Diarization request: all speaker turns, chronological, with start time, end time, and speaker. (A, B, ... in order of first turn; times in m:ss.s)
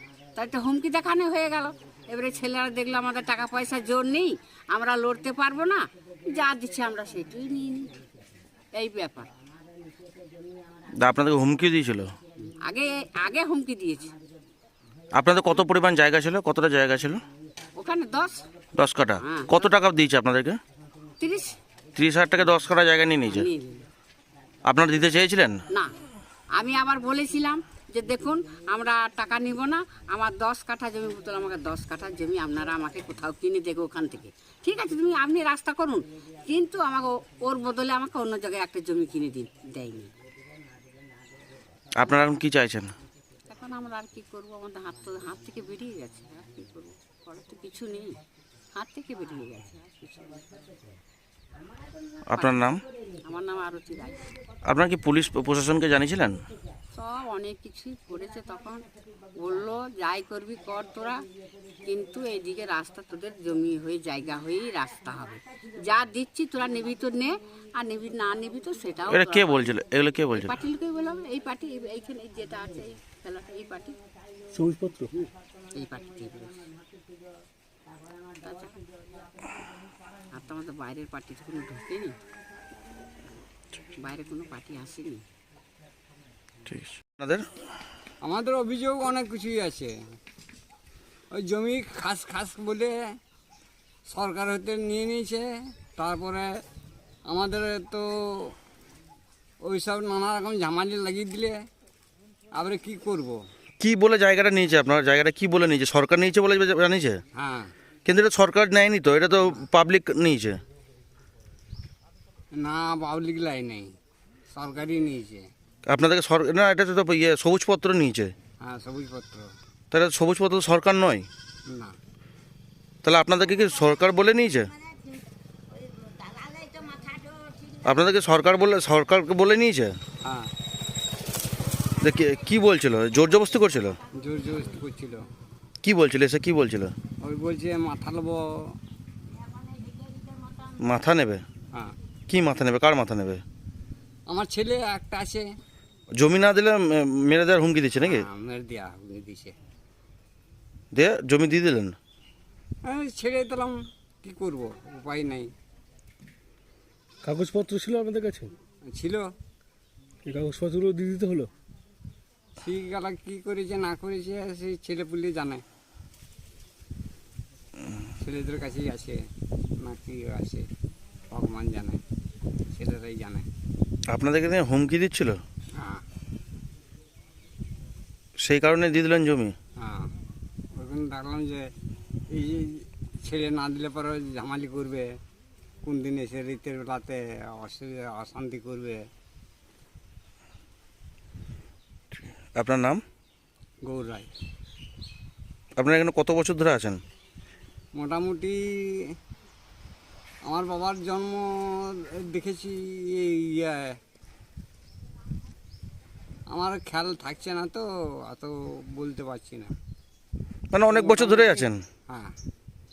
0:00.4-0:07.9 A
0:08.8-0:09.3 A
0:11.0-0:12.1 B
0:12.6-0:14.1 A
0:15.1-0:17.2 B
0:17.8-0:18.4 A
0:18.8-0:20.6 B
0:19.2-0:19.6 A
0:21.2-0:21.6 A
0:21.9-0:23.5 B
0:23.2-0:23.8 A
0:24.6-0:25.6 B
0:26.5-0:40.1 A
0:42.0-0:42.9 B
0:43.5-0:48.2 A
0:48.8-0:50.4 A
0:52.3-0:52.8 B
0:52.3-0:54.2 A
0:54.6-0:56.4 B
0:56.9-0:58.8 A
0:59.4-1:01.2 A
1:01.8-1:09.8 A
1:09.1-1:10.6 B
1:10.3-1:14.0 A
1:14.5-1:15.1 C
1:15.7-1:16.6 A
1:18.4-1:18.8 A
1:20.3-1:22.2 A
1:24.0-1:25.2 A
1:26.7-1:27.4 B
1:28.2-1:30.0 D
1:31.3-1:33.2 D
1:34.0-1:36.6 D
1:37.2-1:38.5 D
1:39.6-1:41.6 D
1:42.5-1:43.4 D
1:43.8-1:47.2 B
1:47.3-1:47.7 D
1:48.0-1:50.6 B
1:52.5-1:54.0 D
1:54.5-1:55.5 D
1:55.9-1:58.3 B
1:58.6-1:59.5 D
1:59.9-2:01.3 B
2:01.7-2:02.0 D
2:03.0-2:04.7 B
2:07.8-2:10.0 B
2:10.2-2:10.5 D
2:12.0-2:14.0 B
2:14.1-2:15.2 D
2:15.8-2:16.9 B
2:17.2-2:18.8 D
2:20.8-2:21.4 B
2:22.3-2:23.4 B
2:24.3-2:25.5 D
2:26.2-2:28.3 B
2:28.0-2:29.5 D
2:30.9-2:32.0 B
2:32.8-2:35.5 D
2:37.2-2:38.5 C
2:38.9-2:39.3 D
2:40.2-2:41.5 C
2:42.6-2:45.6 D
2:48.2-2:49.2 D
2:49.8-2:50.6 D
2:51.3-2:52.0 D
2:52.7-2:53.5 D
2:54.1-2:55.4 B
2:55.8-2:56.0 D
2:58.4-2:59.5 B
2:59.8-3:00.1 D
3:00.8-3:01.7 D
3:02.3-3:05.1 D
3:05.8-3:09.0 D
3:12.1-3:13.0 B
3:13.8-3:14.3 D
3:15.8-3:17.0 B
3:17.9-3:19.0 D
3:20.5-3:24.0 D
3:26.5-3:29.7 D
3:30.7-3:31.8 B
3:30.9-3:32.3 D